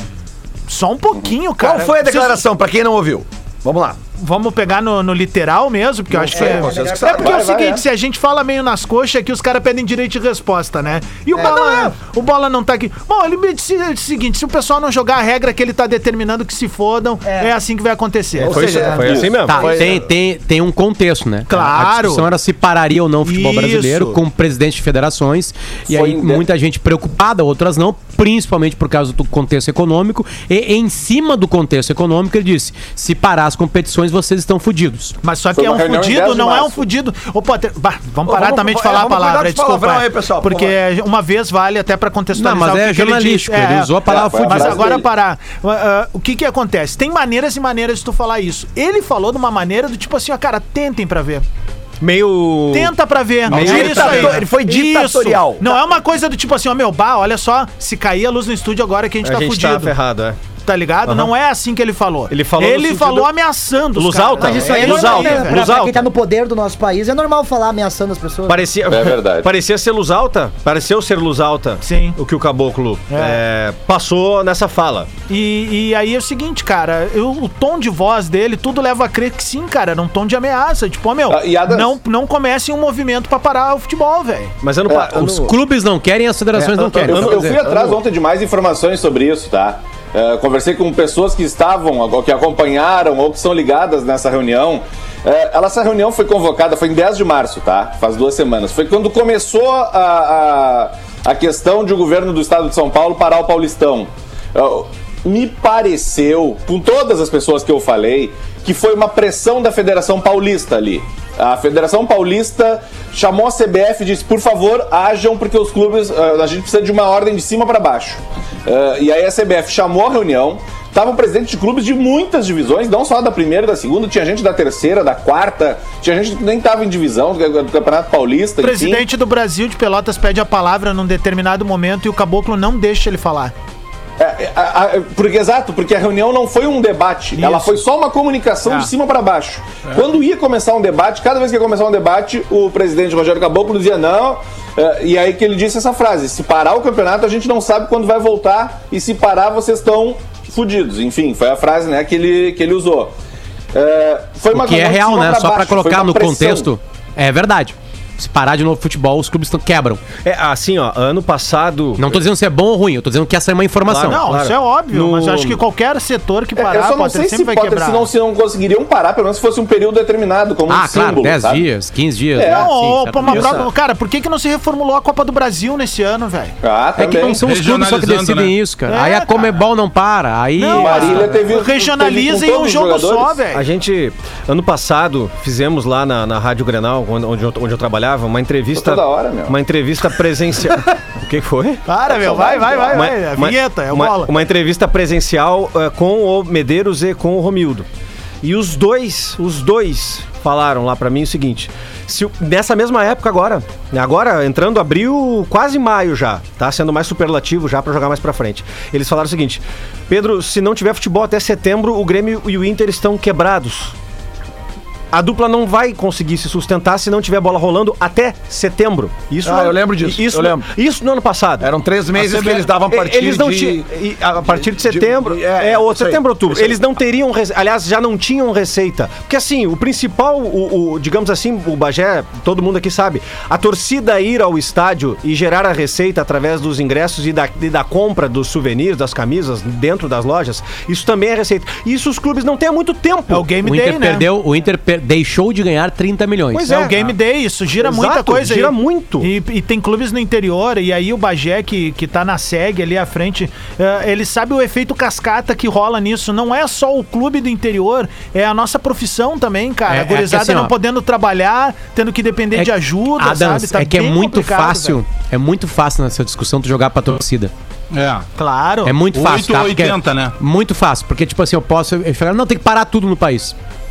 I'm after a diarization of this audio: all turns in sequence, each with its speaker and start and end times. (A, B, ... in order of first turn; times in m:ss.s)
0:00.7-0:02.4 A
0:01.6-0:04.0 B
0:04.2-0:19.0 A
0:06.1-0:07.4 B
0:06.3-0:07.0 C
0:06.9-0:07.8 D
0:11.3-0:11.9 C
0:17.2-0:17.5 C
0:18.4-0:19.7 E
0:18.4-0:20.0 B
0:18.7-0:19.1 C
0:19.4-0:35.2 F
0:21.5-0:22.3 A
0:23.2-0:24.2 A
0:25.9-0:26.4 D
0:35.2-0:51.4 A
0:35.5-0:36.8 D
0:38.2-0:40.7 B
0:42.3-0:45.0 F
0:44.0-0:45.1 D
0:52.0-0:52.9 E
0:52.7-1:00.0 A
0:53.5-0:54.4 E
0:53.5-0:55.7 B
0:59.2-1:00.4 E
1:00.5-1:06.0 A
1:02.3-1:03.3 E
1:03.9-1:06.0 E
1:04.4-1:08.7 C
1:08.5-1:15.1 E
1:08.9-1:09.5 D
1:11.8-1:12.2 A
1:13.1-1:13.4 A
1:15.3-1:24.5 A
1:21.3-1:22.0 D
1:24.6-1:25.5 E
1:25.1-1:27.6 F
1:26.5-1:28.0 E
1:26.9-2:09.0 D
2:08.6-2:13.5 A
2:14.2-2:33.1 D
2:17.4-2:17.8 A
2:18.6-2:18.9 A
2:33.7-2:36.7 D
2:34.5-2:40.0 F
2:40.2-2:42.2 E
2:42.0-2:44.2 F
2:43.9-2:45.6 E
2:44.0-2:48.1 A
2:46.6-2:51.7 D
2:50.7-2:53.6 F
2:52.4-2:52.7 D
2:52.4-2:56.6 A
2:53.2-2:53.7 D
2:53.3-2:53.7 E
2:56.6-2:57.4 D
2:57.0-3:01.3 F
2:57.4-2:58.6 G
2:58.9-2:59.5 A
3:00.6-3:03.6 A
3:00.7-3:03.4 D
3:03.5-3:17.9 E
3:08.7-3:09.6 D
3:11.8-3:14.4 A
3:18.4-3:33.9 E
3:35.1-3:41.7 E
3:39.4-3:40.7 B
3:41.6-3:46.8 B
3:42.1-3:42.7 G
3:42.8-4:03.5 E
4:03.3-4:04.3 A
4:03.6-4:06.7 F
4:06.5-4:07.0 E
4:06.6-4:25.0 A
4:07.8-4:09.3 E
4:19.9-4:20.7 F
4:22.5-4:27.5 F
4:27.9-4:28.3 G
4:28.4-4:29.0 A
4:28.8-4:33.6 F
4:29.1-4:30.3 G